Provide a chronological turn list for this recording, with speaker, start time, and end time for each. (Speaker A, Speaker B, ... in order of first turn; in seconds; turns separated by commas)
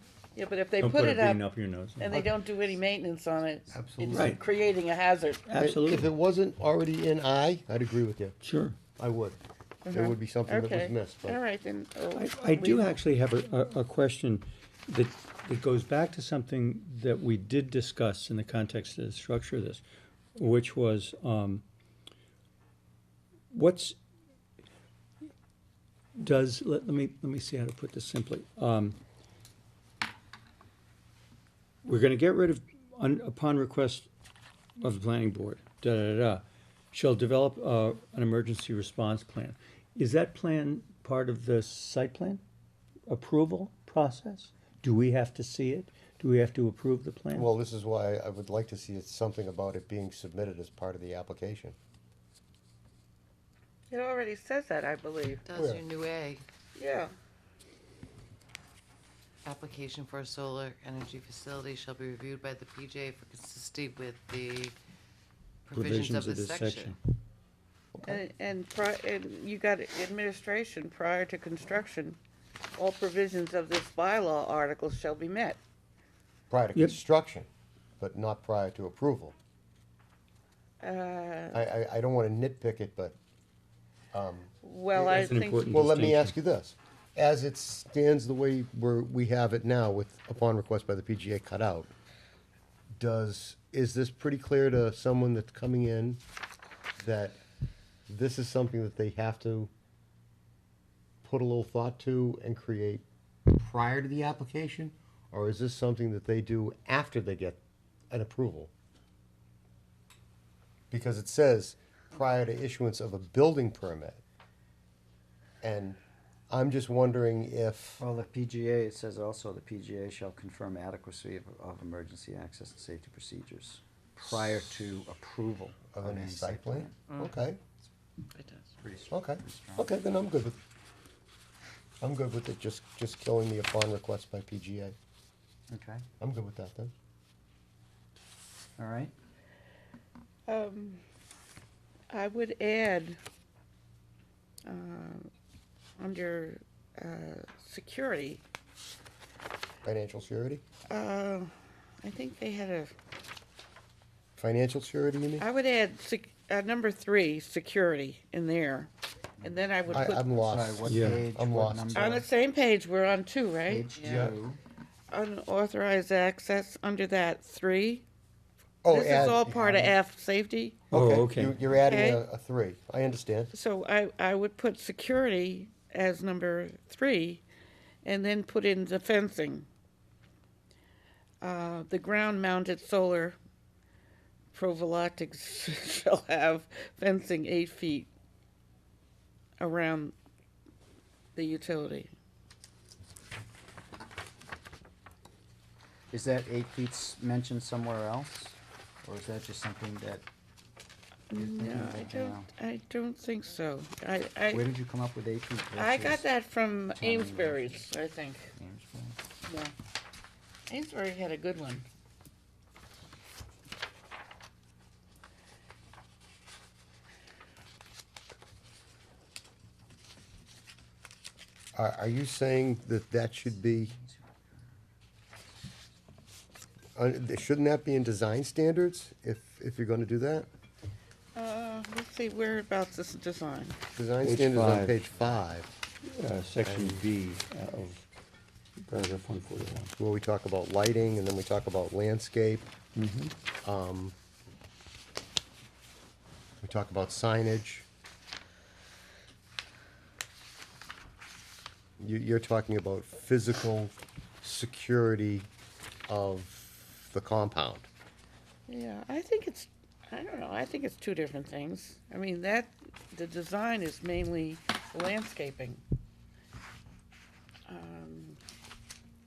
Speaker A: 0.3-1.4, Speaker B: 0.8-2.3, Speaker A: 2.0-5.5, Speaker C: 3.7-4.3, Speaker B: 4.1-4.4, Speaker B: 5.5-6.1, Speaker C: 5.6-8.4, Speaker B: 8.4-8.8, Speaker C: 9.0-9.4, Speaker A: 9.8-12.9, Speaker C: 9.9-11.4, Speaker B: 12.1-19.8, Speaker B: 20.4-21.6, Speaker B: 23.5-24.0, Speaker B: 26.1-29.0, Speaker B: 31.8-34.1, Speaker B: 34.8-42.4, Speaker B: 43.1-47.5, Speaker C: 47.3-51.8, Speaker A: 53.9-55.4, Speaker D: 55.4-56.4, Speaker C: 55.5-55.8, Speaker A: 56.8-57.1, Speaker D: 59.4-64.8, Speaker D: 65.7-66.9, Speaker B: 65.7-67.0, Speaker C: 67.9-68.2, Speaker A: 68.0-72.2, Speaker A: 72.8-75.6, Speaker C: 76.5-77.5, Speaker C: 78.0-79.3, Speaker A: 80.8-81.6, Speaker C: 81.5-83.2, Speaker C: 84.1-91.9, Speaker A: 84.6-85.8, Speaker B: 85.0-86.3, Speaker C: 93.0-96.2, Speaker C: 97.0-97.4, Speaker C: 98.1-99.7, Speaker C: 101.2-108.7, Speaker C: 110.9-114.2, Speaker C: 115.6-116.0, Speaker C: 116.5-118.0, Speaker E: 118.0-127.0, Speaker C: 125.9-127.6, Speaker D: 127.1-127.3, Speaker D: 128.3-128.7, Speaker E: 128.8-129.9, Speaker C: 129.1-130.6, Speaker C: 132.0-134.9, Speaker E: 135.7-136.1, Speaker C: 136.2-136.9, Speaker E: 138.8-139.1, Speaker A: 140.5-141.0, Speaker A: 142.1-143.2, Speaker A: 144.7-145.3, Speaker A: 146.0-148.4, Speaker C: 149.8-150.6, Speaker A: 150.9-151.5, Speaker A: 152.0-152.9, Speaker C: 154.4-155.4, Speaker A: 155.4-158.9, Speaker A: 159.4-160.2, Speaker E: 159.4-162.3, Speaker C: 159.9-162.2, Speaker B: 160.8-161.2, Speaker A: 161.9-164.3, Speaker E: 163.7-164.6, Speaker D: 164.0-164.3, Speaker A: 165.1-168.0, Speaker C: 168.8-169.9, Speaker A: 168.9-170.8, Speaker C: 170.9-173.5, Speaker B: 170.9-171.6, Speaker A: 171.8-172.2, Speaker A: 173.5-177.4, Speaker A: 178.0-179.7, Speaker A: 181.4-183.4, Speaker A: 184.5-188.1, Speaker A: 189.6-190.1, Speaker A: 191.3-192.1, Speaker E: 196.1-200.2, Speaker E: 201.3-202.5, Speaker A: 201.3-204.7, Speaker E: 204.5-206.3, Speaker A: 205.7-208.5, Speaker E: 206.9-207.9, Speaker E: 208.5-209.2, Speaker A: 209.4-209.7, Speaker A: 210.7-211.8, Speaker C: 221.7-224.0, Speaker E: 223.6-224.2, Speaker C: 226.9-230.5, Speaker A: 231.3-233.8, Speaker C: 233.9-235.7, Speaker B: 234.2-235.0, Speaker B: 236.0-238.1, Speaker C: 236.6-237.0, Speaker B: 238.8-239.9, Speaker C: 240.0-242.7, Speaker B: 242.9-243.3, Speaker C: 243.6-244.1, Speaker C: 246.6-247.9, Speaker C: 252.0-255.5, Speaker C: 256.1-257.9, Speaker A: 258.7-265.8, Speaker A: 267.7-268.4